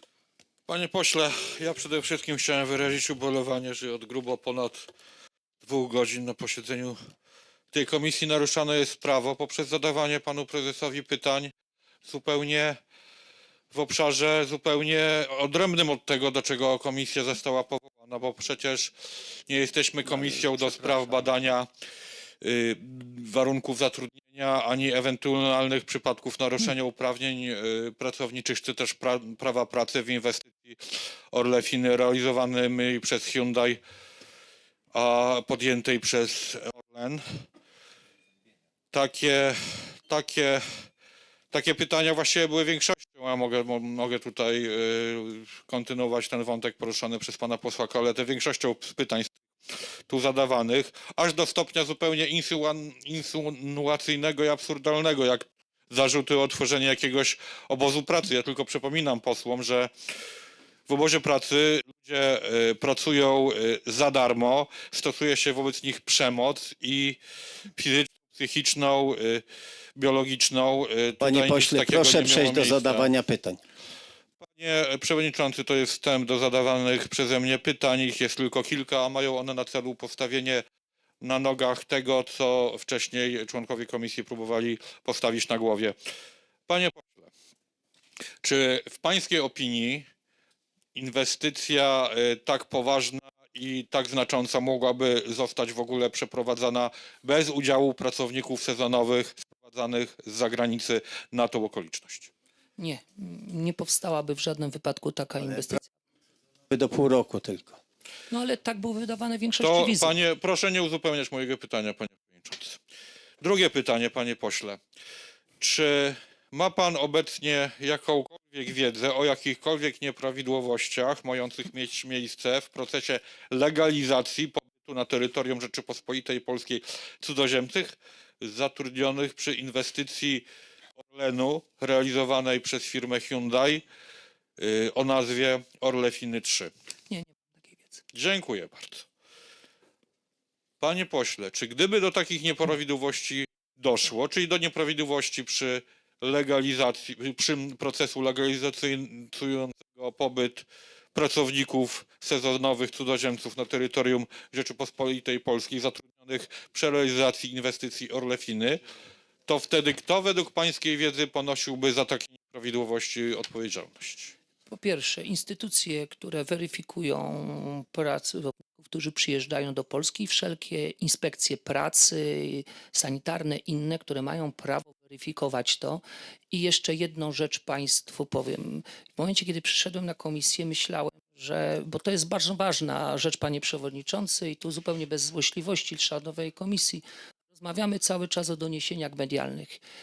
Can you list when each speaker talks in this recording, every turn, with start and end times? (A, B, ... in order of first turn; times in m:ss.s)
0:00.7-0:04.9 A
0:05.6-0:07.0 A
0:07.7-0:11.5 A
0:12.1-0:12.8 A
0:13.7-0:18.9 A
0:19.5-0:21.7 A
0:22.4-0:30.8 A
0:31.3-0:33.8 A
0:34.9-0:37.2 A
0:38.9-0:40.6 A
0:41.5-0:49.4 A
0:50.1-0:59.9 A
1:00.9-1:07.2 A
1:07.8-1:09.4 A
1:10.0-1:13.1 A
1:11.2-1:13.6 B
1:14.4-1:20.6 A
1:21.2-1:26.0 A
1:26.7-1:27.3 A
1:28.4-1:30.1 A
1:31.0-1:42.3 A
1:42.8-1:45.9 C
1:45.4-1:45.7 B
1:46.7-1:47.8 B
1:48.3-1:50.2 C
1:49.6-1:52.8 A
1:53.4-1:54.8 A
1:55.6-2:10.4 A
2:11.0-2:13.8 A
2:14.6-2:16.7 A
2:17.1-2:18.0 C
2:18.1-2:19.1 A
2:20.8-2:38.8 A
2:39.5-2:44.3 A
2:44.7-3:09.8 C